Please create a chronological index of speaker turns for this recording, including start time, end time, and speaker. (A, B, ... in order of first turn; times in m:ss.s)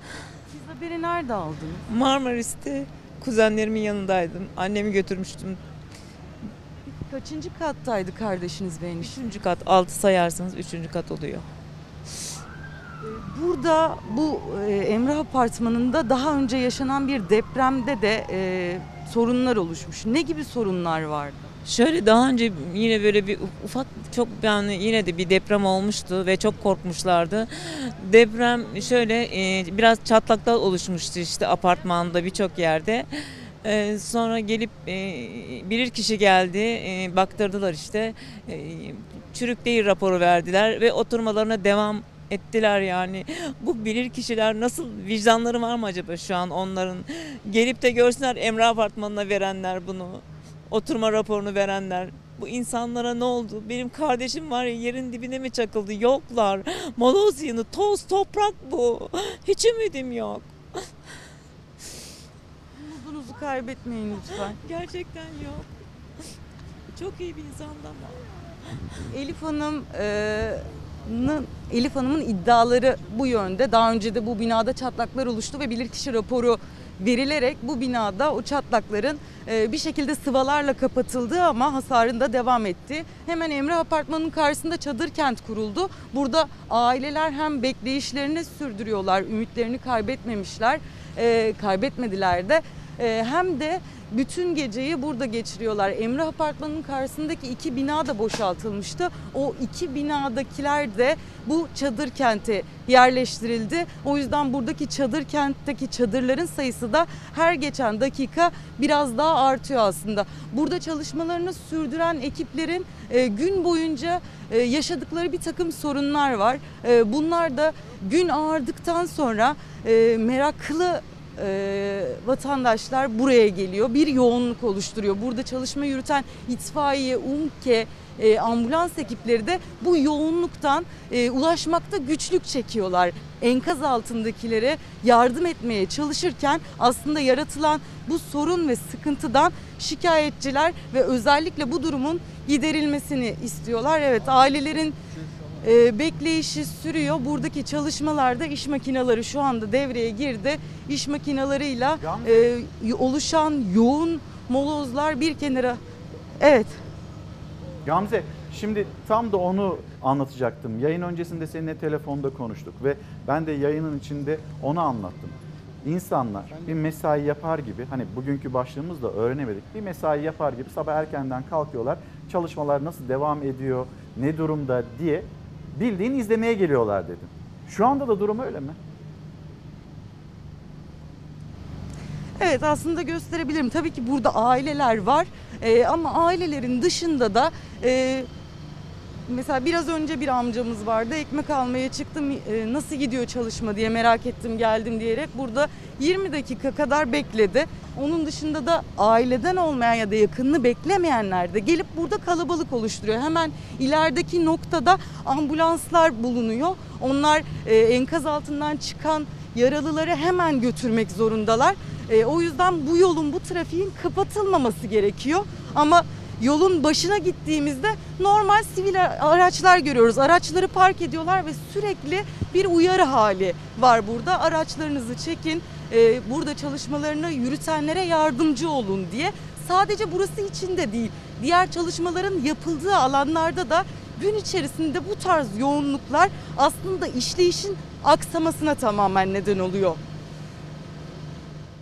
0:00.5-0:01.8 A
0:01.9-0:05.6 B
0:07.0-0:09.2 A
0:09.0-0:11.5 B
0:13.1-0:21.5 A
0:21.6-1:00.5 B
1:02.8-1:04.6 A
1:04.6-1:05.6 B
1:06.9-1:08.2 B
1:09.1-2:25.0 A
2:25.6-2:35.8 A
2:32.0-2:32.5 C
2:36.4-2:36.8 A
2:37.8-2:58.8 C
3:02.4-3:08.3 A
3:09.3-4:00.0 A